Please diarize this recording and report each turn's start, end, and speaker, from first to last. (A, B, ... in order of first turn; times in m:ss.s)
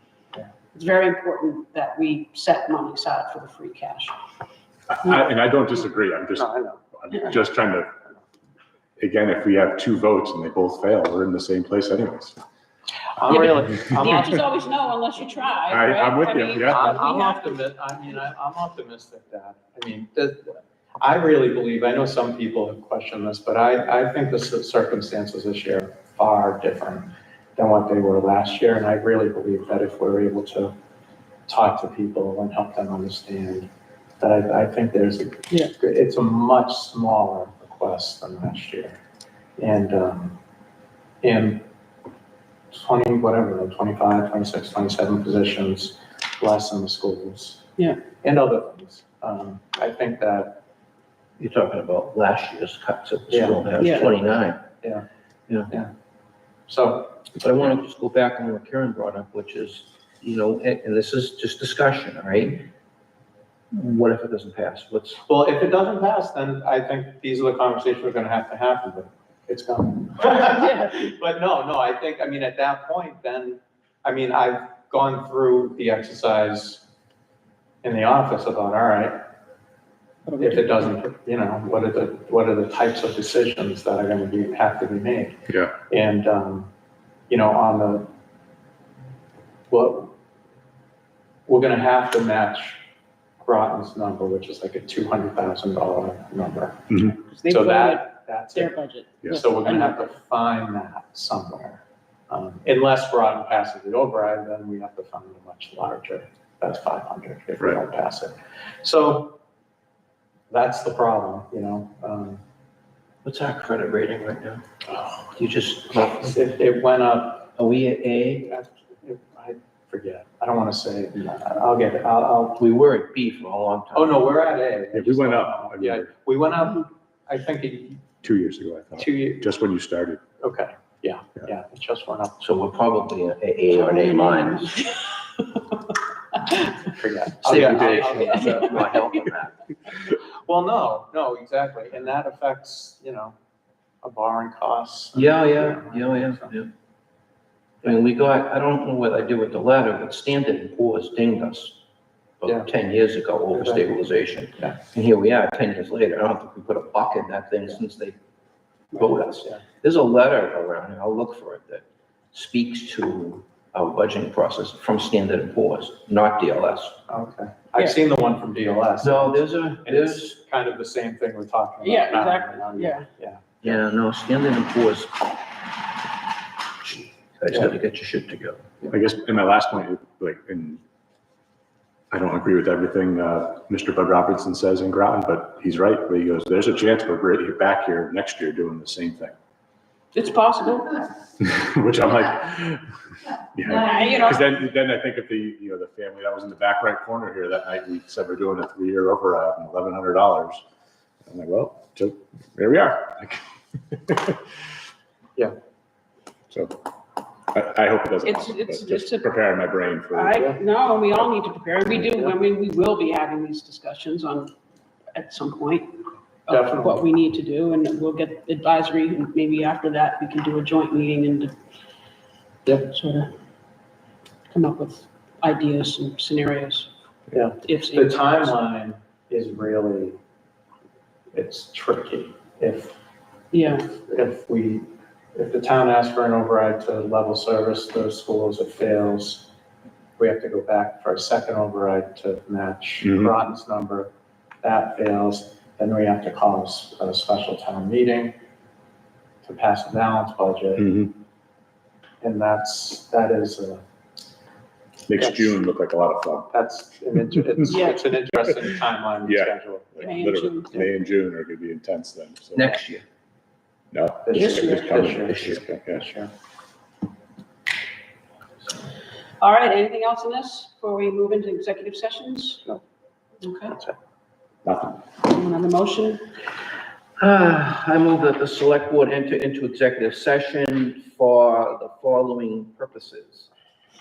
0:00.7-0:04.1 A
0:04.9-0:07.9 B
0:06.4-0:06.8 C
0:09.0-0:12.4 B
0:13.2-0:14.3 C
0:13.3-0:17.6 A
0:15.7-0:16.8 B
0:16.7-0:30.7 C
0:31.5-0:39.0 C
0:39.6-0:40.4 C
0:41.2-0:41.6 C
0:42.7-0:47.6 C
0:47.8-0:48.0 A
0:48.2-0:50.6 C
0:51.4-0:54.7 D
0:53.3-0:54.2 C
0:53.8-0:54.1 A
0:56.7-0:57.2 C
0:57.4-1:02.7 D
1:03.7-1:05.2 D
1:05.2-1:16.8 C
1:10.4-1:11.1 A
1:17.8-1:19.2 C
1:20.3-1:20.9 A
1:20.4-1:26.7 C
1:27.3-1:28.1 C
1:29.7-1:30.1 C
1:31.5-1:32.8 C
1:33.4-1:49.4 C
1:36.9-1:37.2 B
1:37.3-1:40.0 A
1:50.5-1:52.4 C
1:53.2-1:54.6 D
1:54.9-1:55.2 C
1:55.4-1:56.4 D
1:56.2-1:57.5 C
1:57.6-1:58.5 D
1:58.4-2:02.6 C
2:02.6-2:04.2 D
2:03.9-2:08.0 C
2:04.9-2:06.1 B
2:08.2-2:10.2 B
2:09.0-2:09.4 C
2:10.4-2:12.4 C
2:12.4-2:14.7 D
2:13.7-2:15.6 A
2:16.5-2:16.8 A
2:16.9-2:19.0 C
2:17.4-2:19.6 D
2:20.4-2:23.3 C
2:24.0-2:26.5 C
2:25.1-2:26.7 D
2:27.8-2:31.8 D
2:32.4-2:38.2 D
2:33.5-2:33.8 C
2:38.9-2:47.0 D
2:47.1-2:53.8 C
2:49.0-2:50.4 D
2:51.8-2:53.0 A
2:53.6-2:55.3 D
2:56.8-2:58.7 D
2:58.9-3:00.8 B
3:02.1-3:09.3 B
3:10.1-3:11.0 A
3:11.4-3:12.8 B
3:13.5-3:20.6 B
3:13.7-3:14.4 A
3:21.3-3:24.4 B
3:26.5-3:26.8 B
3:27.5-3:30.4 B
3:28.2-3:29.3 A
3:30.1-3:34.5 A
3:30.3-3:30.6 C
3:35.1-3:36.0 A
3:36.5-3:41.5 A
3:36.5-3:37.0 C
3:42.6-3:42.9 C
3:42.9-3:43.3 A
3:44.5-3:46.9 A
3:47.3-3:50.2 C
3:47.6-3:48.6 A
3:51.3-3:53.0 C
3:53.5-3:53.9 A
3:53.8-3:59.5 C
4:00.2-4:08.4 C
4:03.0-4:03.3 B
4:09.4-4:10.9 C
4:10.8-4:11.1 B
4:12.2-4:13.8 C
4:15.1-4:16.5 B
4:15.2-4:15.5 C
4:16.5-4:20.2 C
4:17.6-4:18.1 A
4:19.3-4:22.8 B
4:20.0-4:20.7 A
4:22.5-4:23.0 D
4:23.9-4:26.1 B
4:24.2-4:26.3 C
4:24.3-4:24.9 A
4:29.4-4:32.8 A
4:33.4-4:33.8 A
4:34.6-4:35.0 B
4:35.2-4:36.2 A
4:37.2-4:43.5 D